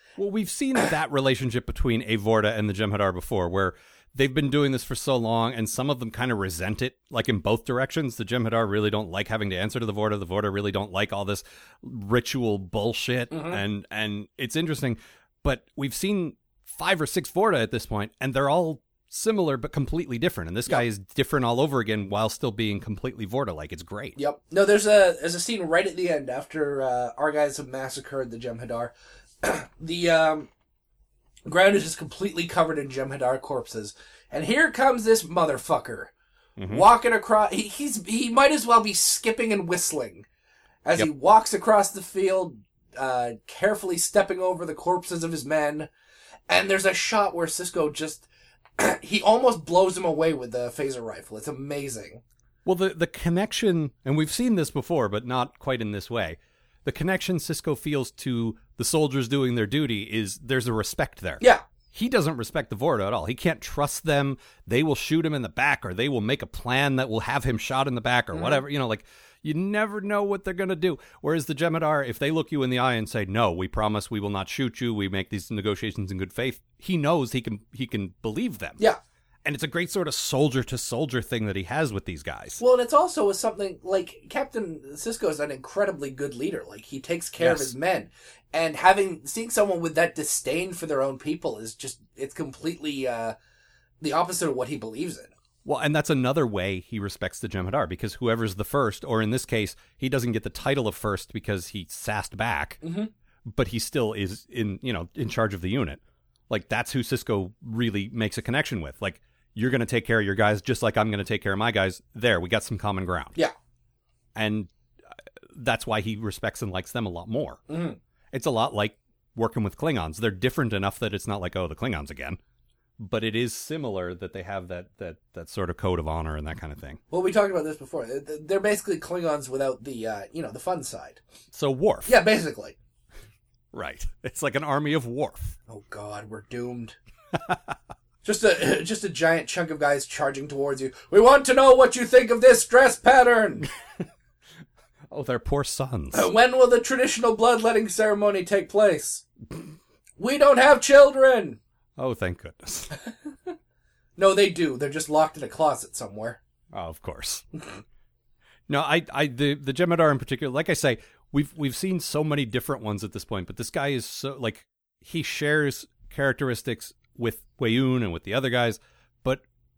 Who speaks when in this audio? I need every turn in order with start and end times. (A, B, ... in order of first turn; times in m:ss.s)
0:00.2-0:24.2 A
0:13.3-0:13.6 B
0:24.2-0:30.5 B
0:31.4-0:36.1 B
0:36.6-0:36.9 A
0:36.7-0:40.2 B
0:40.8-0:45.9 B
0:46.5-0:48.3 B
0:48.8-0:52.2 B
0:52.6-1:18.8 A
1:08.3-1:08.6 B
1:19.4-1:22.6 A
1:22.6-1:33.4 B
1:27.4-1:27.7 A
1:34.0-1:35.3 B
1:35.6-1:42.8 A
1:42.8-1:43.1 B
1:43.5-1:53.4 A
1:54.4-1:54.7 A
1:55.5-1:57.6 A
1:57.7-1:58.0 B
1:58.3-2:02.4 A
2:03.0-2:07.0 A
2:07.1-2:11.2 B
2:11.5-2:12.2 A
2:12.0-2:12.8 B
2:13.7-2:15.6 A
2:15.7-2:17.0 B
2:18.2-2:23.7 B
2:25.1-2:26.3 A
2:26.1-2:29.2 B
2:30.2-2:31.6 B
2:32.0-2:32.9 A
2:33.0-2:33.5 B
2:34.2-2:36.4 B
2:36.7-2:37.4 A
2:38.7-2:49.4 A